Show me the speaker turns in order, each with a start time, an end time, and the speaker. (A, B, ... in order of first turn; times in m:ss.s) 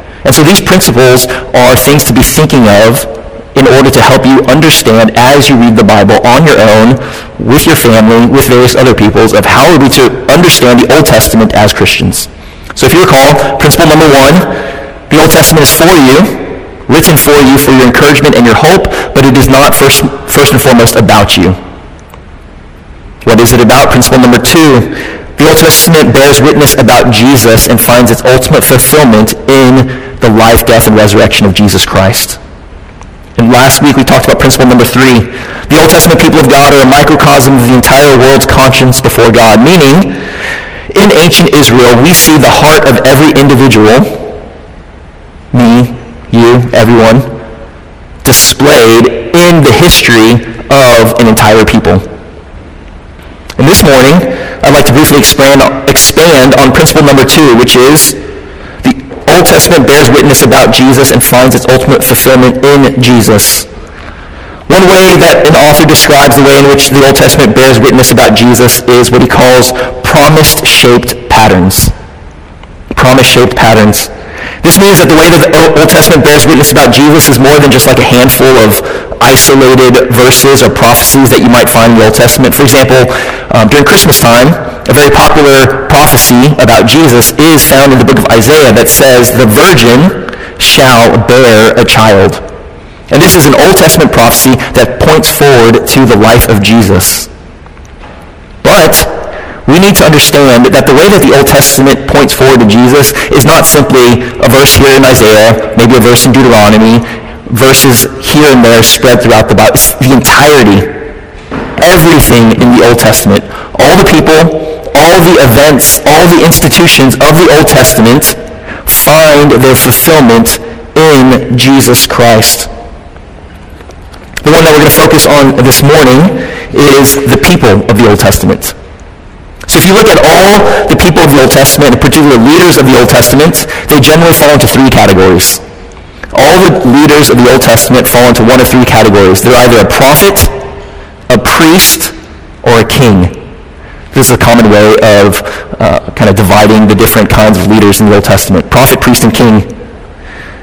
0:00.2-0:21.6 A
0:23.2-0:32.4 A
0:33.4-0:40.2 A
0:40.9-0:44.3 A
0:45.5-0:47.3 A
0:48.2-0:52.0 A
0:53.6-0:58.2 A
0:58.8-1:03.7 A
1:04.7-1:11.9 A
1:12.9-1:14.1 A
1:14.6-1:32.4 A
1:33.1-1:37.3 A
1:38.6-1:39.1 A
1:39.6-1:51.0 A
1:51.8-2:02.7 A
2:04.4-2:08.8 A
2:09.7-2:15.6 A
2:16.3-2:20.5 A
2:21.3-2:23.3 A
2:24.1-2:29.7 A